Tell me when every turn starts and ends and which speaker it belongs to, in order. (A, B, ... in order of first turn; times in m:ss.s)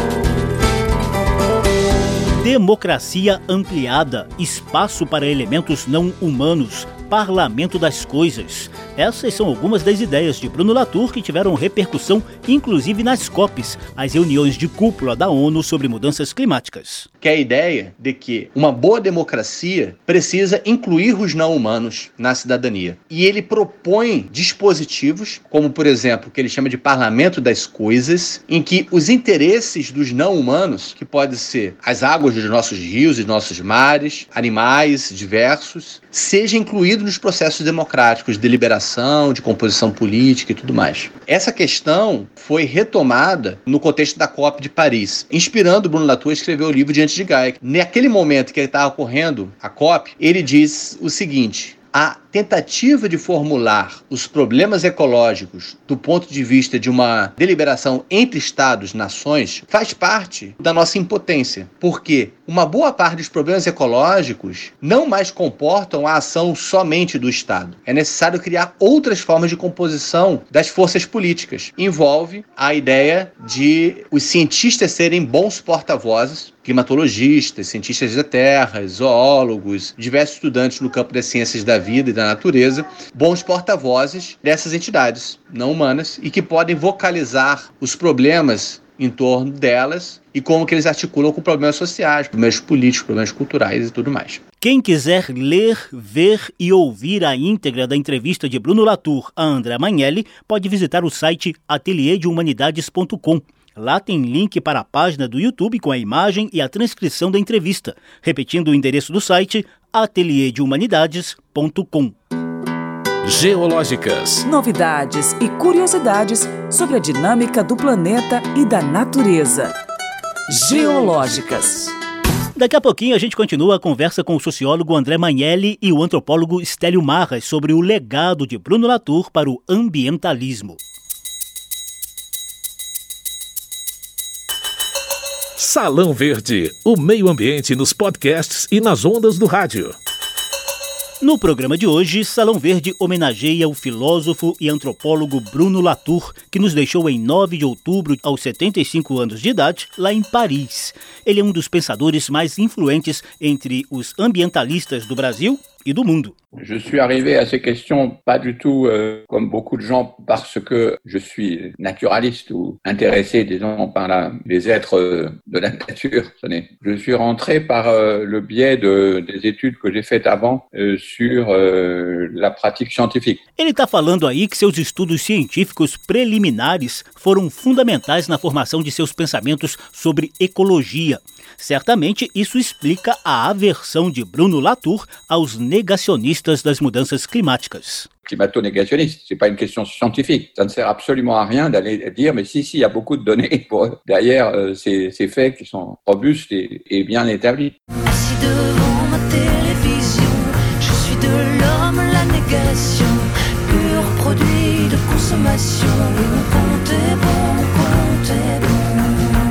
0:02.4-0:17.1 A
0:17.2-1:34.4 B
1:34.6-1:52.1 A
1:53.2-1:54.4 C
1:54.4-1:59.7 D
2:00.5-2:01.9 D
2:00.8-2:01.6 C
2:02.6-2:10.8 A
2:15.6-2:20.0 C
2:21.2-2:36.4 A
2:36.6-2:53.4 E
2:53.6-3:08.1 A
3:08.3-3:17.7 E
3:18.1-3:29.3 F